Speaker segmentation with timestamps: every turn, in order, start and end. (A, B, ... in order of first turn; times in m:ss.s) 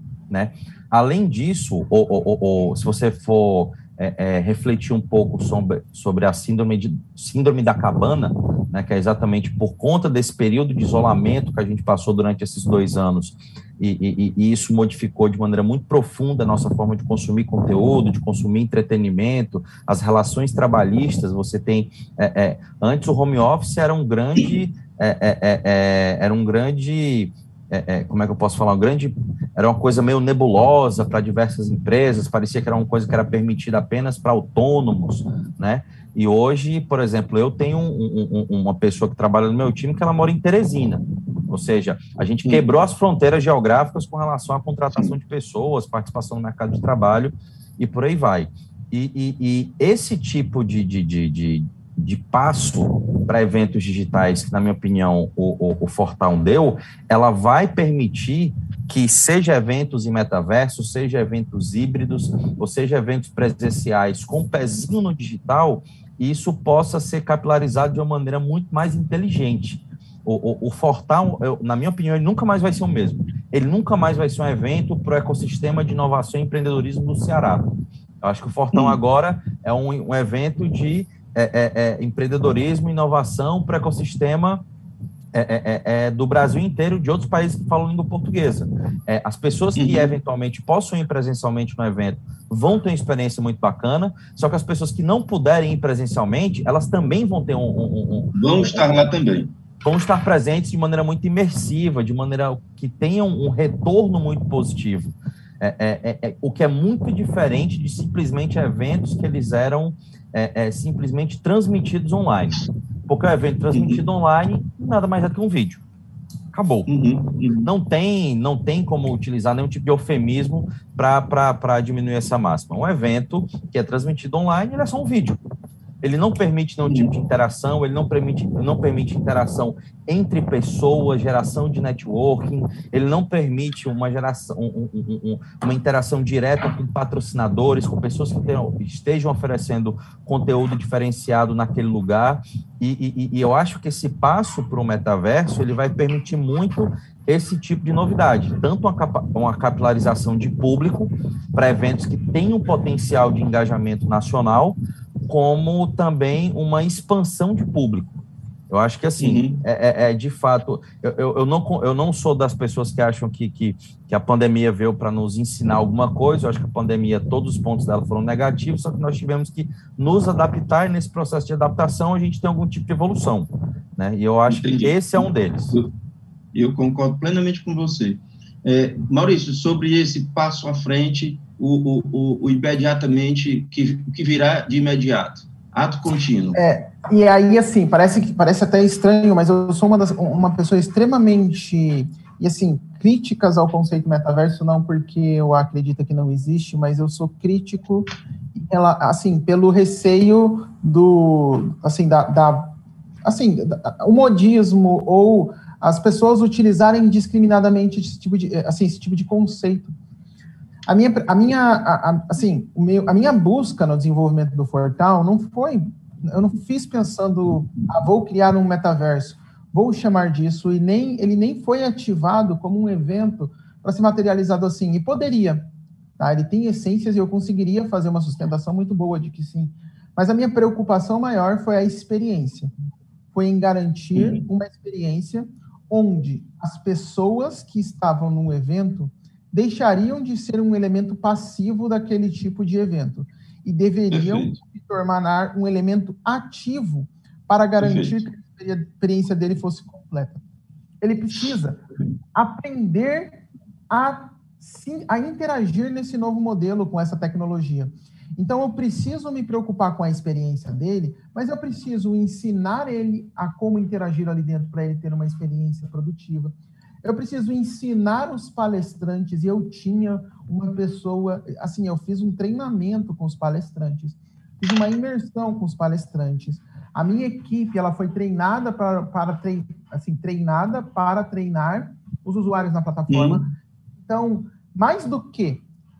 0:00.3-1:17.7 A
1:18.2-1:24.6 A
1:18.7-1:19.0 B
1:25.3-1:39.1 A
1:29.8-1:30.2 B
1:38.3-1:39.5 B
1:39.8-1:55.8 A
1:53.7-1:54.0 B
1:56.5-1:56.9 A
1:56.9-1:57.7 B
1:57.6-2:05.4 A
2:06.0-2:55.8 A
2:39.2-2:39.6 B
2:54.5-2:55.0 B
2:56.5-3:06.6 B
3:06.5-3:29.9 C
3:30.9-3:52.7 C
3:53.3-4:10.4 C
3:54.1-3:54.4 B
4:04.1-4:04.6 B
4:07.8-4:08.2 B
4:11.0-4:11.8 C
4:12.3-4:45.6 C
4:43.1-4:43.5 B